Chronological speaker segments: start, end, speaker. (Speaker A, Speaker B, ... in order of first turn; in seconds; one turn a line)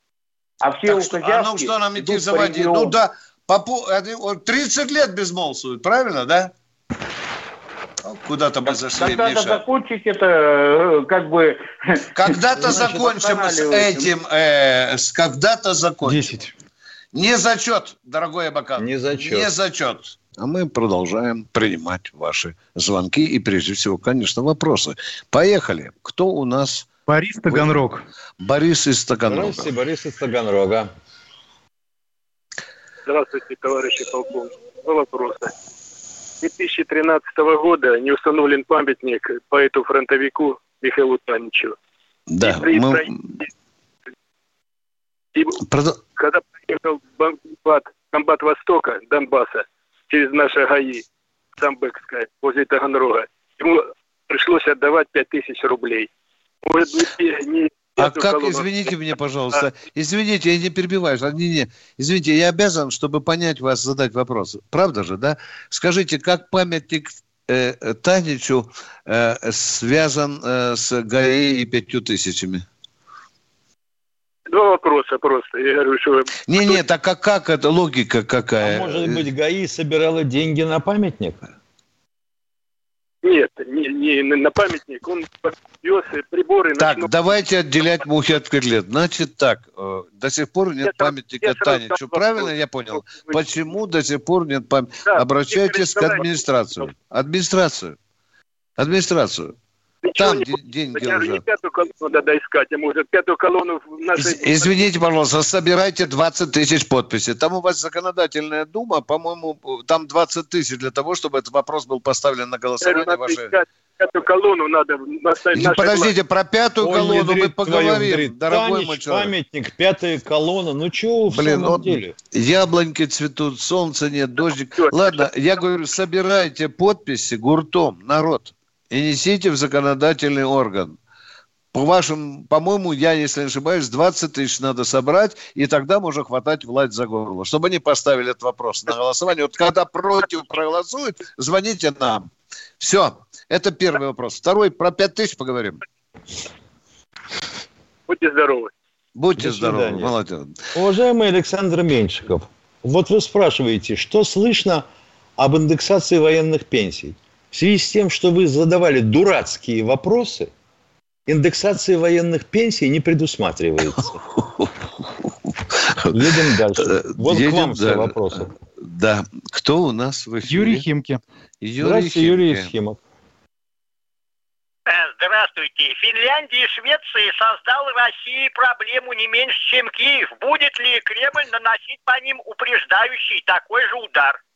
Speaker A: 0.6-2.9
Speaker B: 0.8-6.5
Speaker B: 8.0-9.6
Speaker A: 8.7-14.1
Speaker B: 12.1-16.3
Speaker C: 16.0-16.5
Speaker B: 17.1-26.9
Speaker D: 18.8-19.5
Speaker C: 27.1-28.0
Speaker B: 28.4-29.7
Speaker D: 29.3-30.9
Speaker E: 33.1-35.5
Speaker E: 36.4-41.7
Speaker B: 42.3-43.2
Speaker E: 42.4-43.1
Speaker B: 45.6-46.0
Speaker E: 46.2-51.0
Speaker E: 51.6-56.1
Speaker E: 56.6-58.9
Speaker B: 58.0-72.6
Speaker E: 74.5-76.8
Speaker B: 76.5-79.3
Speaker D: 78.6-81.4
Speaker E: 83.2-87.1
Speaker B: 86.7-98.0
Speaker E: 90.8-93.4
Speaker E: 95.1-96.9
Speaker B: 98.8-99.5
Speaker E: 100.0-104.9
Speaker B: 100.1-101.5
Speaker B: 104.1-113.5
Speaker E: 112.8-116.1
Speaker B: 115.5-119.3
Speaker D: 116.8-122.1
Speaker B: 121.3-130.9
Speaker E: 124.8-125.3
Speaker B: 131.7-142.3
Speaker B: 142.8-145.8
Speaker E: 148.1-148.7
Speaker B: 149.1-150.6
Speaker D: 149.4-150.1
Speaker D: 150.7-154.8
Speaker D: 155.4-160.5
Speaker D: 161.3-164.2
Speaker B: 164.4-164.7
Speaker D: 166.1-168.5
Speaker B: 166.8-170.8
Speaker C: 170.4-171.2
Speaker B: 171.6-172.7
Speaker D: 171.8-173.0
Speaker F: 174.9-184.3